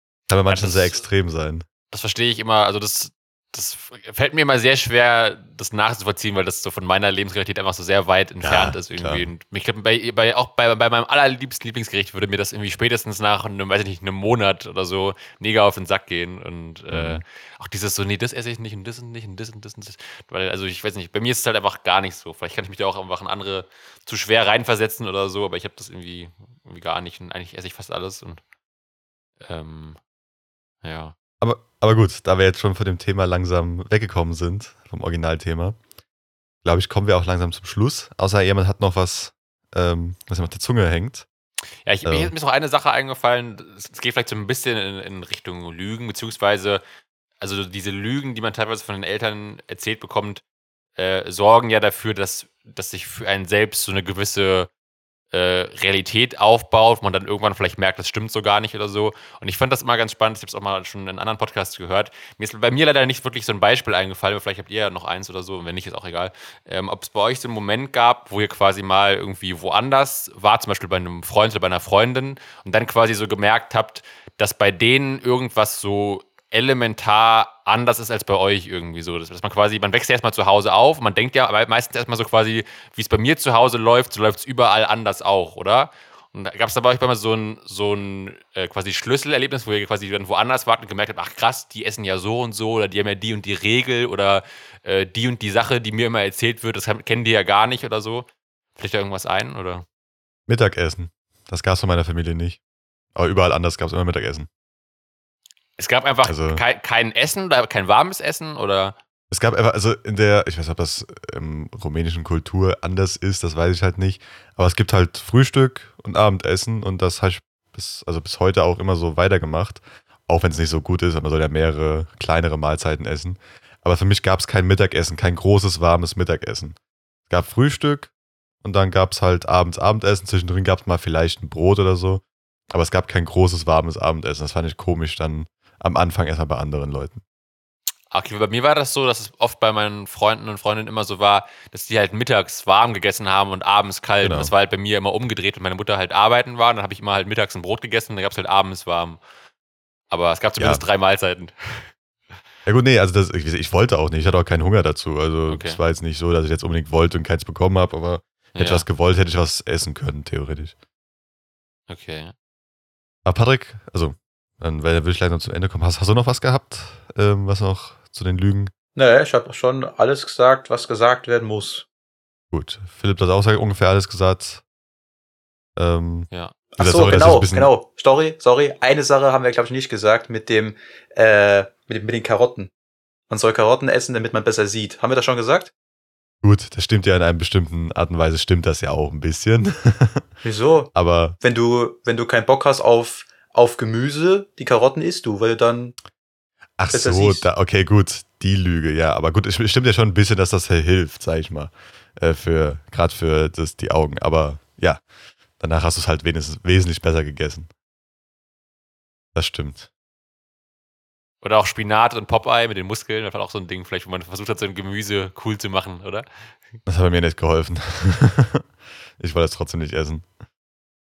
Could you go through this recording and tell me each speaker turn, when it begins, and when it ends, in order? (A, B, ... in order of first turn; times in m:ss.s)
0:00.3-0:01.6 A
0:00.5-0:01.0 B
0:01.9-0:28.4 B
0:08.4-0:09.3 A
0:16.9-0:17.2 A
0:29.4-0:30.0 B
0:30.8-0:31.2 B
0:31.4-0:35.8 A
0:36.6-0:41.3 A
0:41.9-0:46.8 B
0:42.1-0:42.3 A
0:47.4-0:50.4 B
0:51.0-0:54.7 B
0:55.3-1:39.8 B
1:40.5-1:42.6 A
1:43.2-1:44.5 A
1:45.8-1:49.0 B
1:46.2-1:46.6 A
1:49.3-2:06.8 A
2:07.3-2:08.1 A
2:08.6-2:17.2 A
2:18.1-2:29.2 B
2:24.2-2:24.5 A
2:30.1-2:31.9 B
2:30.6-2:30.8 A
2:32.7-2:40.7 A
2:35.5-2:35.8 B
2:38.6-2:38.9 B
2:41.9-2:42.3 B
2:43.2-2:48.7 A
2:49.0-2:51.8 C
2:52.5-2:54.6 A
2:55.8-2:57.7 A
2:56.3-2:56.6 B
2:56.8-3:02.7 C
3:03.3-3:05.7 C
3:06.4-3:10.3 A
3:10.4-3:16.0 C
3:10.9-3:11.4 A
3:16.8-3:25.0 A
3:16.9-3:17.5 C
3:25.6-3:27.7 A
3:29.4-3:29.9 A
3:31.4-3:36.3 B
3:36.9-3:40.3 A